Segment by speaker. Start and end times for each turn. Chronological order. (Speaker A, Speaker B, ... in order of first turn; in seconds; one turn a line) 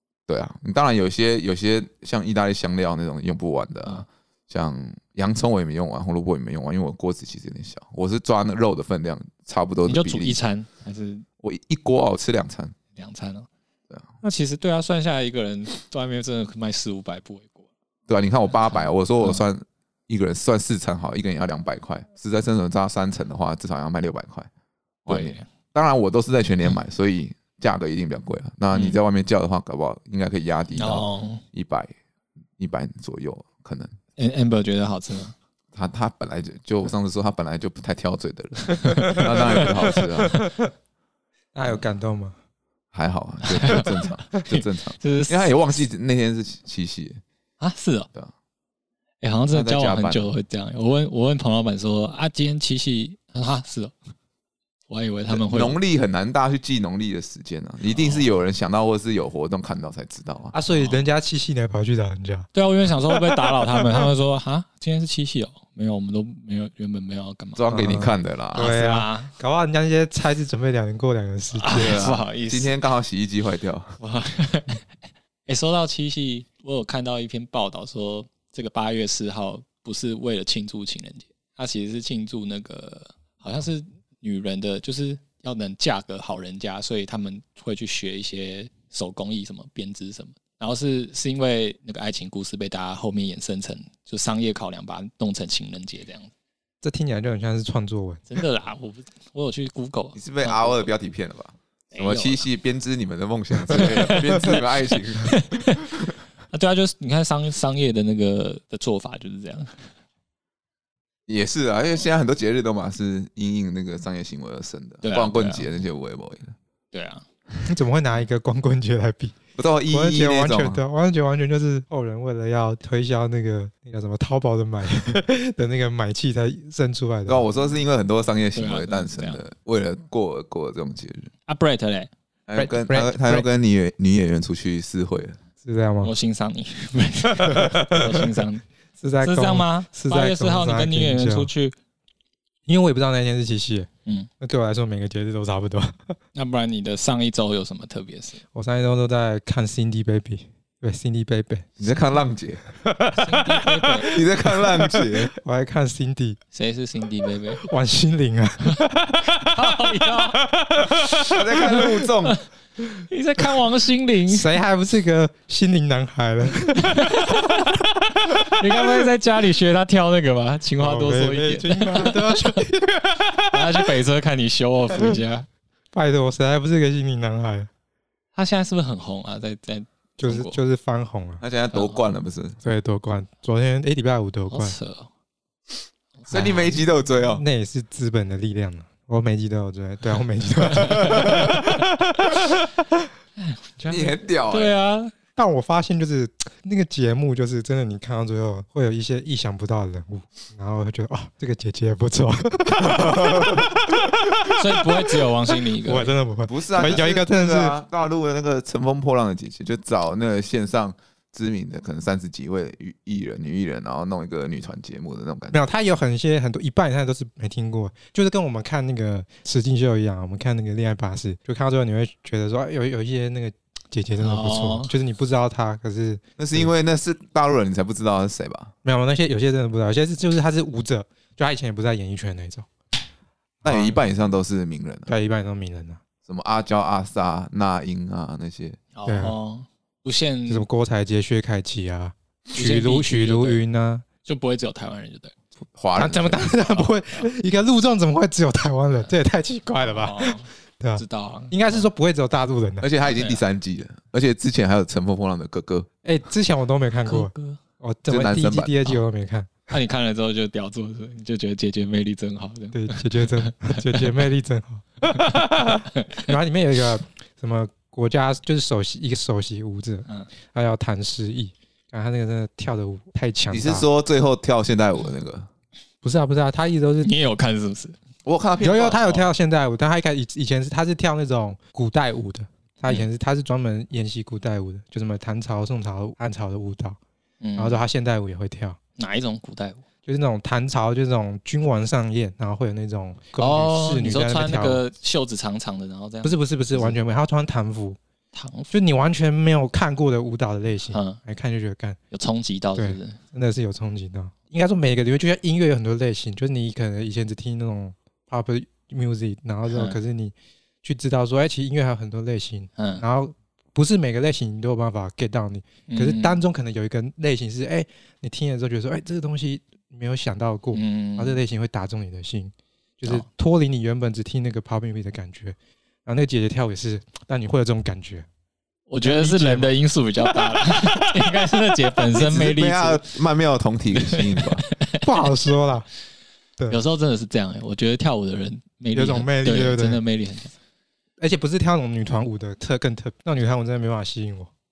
Speaker A: 0.3-10.4
Speaker B: 9.9-11.2
Speaker A: 11.4-12.8
Speaker B: 12.9-13.5
Speaker B: 14.2-17.7
Speaker A: 18.1-24.5
Speaker B: 18.7-19.4
Speaker A: 25.1-31.9
Speaker B: 25.1-25.5
Speaker B: 28.7-29.0
Speaker B: 30.7-31.4
Speaker A: 32.6-34.0
Speaker B: 34.2-35.4
Speaker A: 35.7-40.4
Speaker B: 38.8-39.9
Speaker C: 39.1-39.7
Speaker C: 40.4-40.7
Speaker C: 41.5-42.4
Speaker A: 42.9-47.2
Speaker B: 43.5-45.5
Speaker B: 47.6-48.1
Speaker B: 49.2-53.9
Speaker A: 49.5-50.3
Speaker B: 54.9-55.8
Speaker A: 55.3-60.5
Speaker B: 57.9-58.3
Speaker C: 60.5-62.5
Speaker B: 60.7-61.0
Speaker B: 62.5-67.7
Speaker A: 67.6-68.7
Speaker C: 67.7-72.0
Speaker B: 68.5-69.3
Speaker B: 71.5-72.7
Speaker A: 71.7-74.0
Speaker B: 74.0-74.8
Speaker B: 75.5-96.3
Speaker C: 96.8-98.3
Speaker B: 98.3-100.9
Speaker A: 100.2-106.1
Speaker B: 101.9-102.4
Speaker B: 103.7-104.7
Speaker B: 105.2-105.8
Speaker B: 106.5-109.9
Speaker A: 111.3-116.5
Speaker B: 115.0-115.7
Speaker B: 116.9-117.2
Speaker C: 117.6-119.4
Speaker A: 119.6-120.8
Speaker C: 119.9-127.4
Speaker A: 127.3-131.3
Speaker B: 128.6-129.4
Speaker B: 131.5-132.1
Speaker A: 132.5-135.4
Speaker C: 132.6-133.5
Speaker C: 135.6-136.1
Speaker B: 136.0-138.6
Speaker C: 137.4-138.2
Speaker C: 139.0-141.5
Speaker B: 139.2-141.8
Speaker C: 142.7-143.9
Speaker C: 144.4-146.2
Speaker B: 146.3-148.4
Speaker C: 148.5-151.7
Speaker A: 151.8-152.6
Speaker C: 152.8-156.4
Speaker B: 153.1-154.1
Speaker A: 154.0-155.3
Speaker B: 156.5-157.6
Speaker C: 157.6-162.1
Speaker B: 159.4-160.4
Speaker A: 161.3-162.4
Speaker B: 163.1-164.5
Speaker C: 164.3-167.8
Speaker B: 166.8-172.6
Speaker C: 170.8-173.9
Speaker B: 173.5-175.5
Speaker C: 175.9-177.7
Speaker B: 178.3-180.6
Speaker C: 180.2-181.4
Speaker A: 181.4-182.6
Speaker B: 181.7-182.0
Speaker C: 182.6-184.8
Speaker B: 184.5-185.1
Speaker B: 186.2-186.7
Speaker A: 186.3-187.4
Speaker C: 186.3-186.8
Speaker C: 187.3-192.4
Speaker A: 190.8-191.6
Speaker B: 193.4-195.1
Speaker A: 193.9-194.7
Speaker C: 195.4-205.2
Speaker A: 202.8-203.7
Speaker B: 204.5-206.1
Speaker C: 205.8-207.8
Speaker A: 206.5-215.6
Speaker C: 215.5-226.7
Speaker B: 224.2-224.9
Speaker A: 226.4-228.7
Speaker C: 228.8-232.7
Speaker C: 233.6-234.0
Speaker A: 233.6-235.1
Speaker C: 235.1-236.0
Speaker A: 236.3-238.8
Speaker B: 238.9-240.7
Speaker C: 239.1-239.4
Speaker C: 240.5-244.1
Speaker B: 242.5-243.6
Speaker B: 244.2-245.3
Speaker A: 245.8-246.6
Speaker C: 246.0-252.9
Speaker B: 246.8-247.3
Speaker B: 249.8-251.9
Speaker A: 252.8-255.9
Speaker B: 253.1-253.4
Speaker C: 256.0-259.5
Speaker B: 257.1-257.6
Speaker A: 258.1-258.8
Speaker B: 259.7-264.1
Speaker C: 262.7-273.9
Speaker A: 273.5-275.5
Speaker C: 276.0-277.1
Speaker B: 277.0-278.0
Speaker A: 278.3-279.2
Speaker C: 278.6-287.0
Speaker B: 287.4-287.8
Speaker C: 287.6-288.8
Speaker B: 289.0-289.8
Speaker C: 290.1-294.8
Speaker B: 293.4-297.0
Speaker C: 296.2-298.0
Speaker B: 298.3-298.7
Speaker C: 298.7-302.0
Speaker B: 300.9-301.2
Speaker B: 302.1-303.2
Speaker C: 302.8-328.3
Speaker B: 309.7-310.0
Speaker B: 312.8-313.0
Speaker B: 315.9-316.4
Speaker B: 320.7-321.4
Speaker B: 328.9-333.0
Speaker C: 329.0-329.7
Speaker C: 330.6-331.0
Speaker A: 332.1-334.7
Speaker B: 334.0-335.1
Speaker C: 335.0-335.9
Speaker B: 336.7-340.5
Speaker C: 338.9-340.0
Speaker C: 341.2-344.5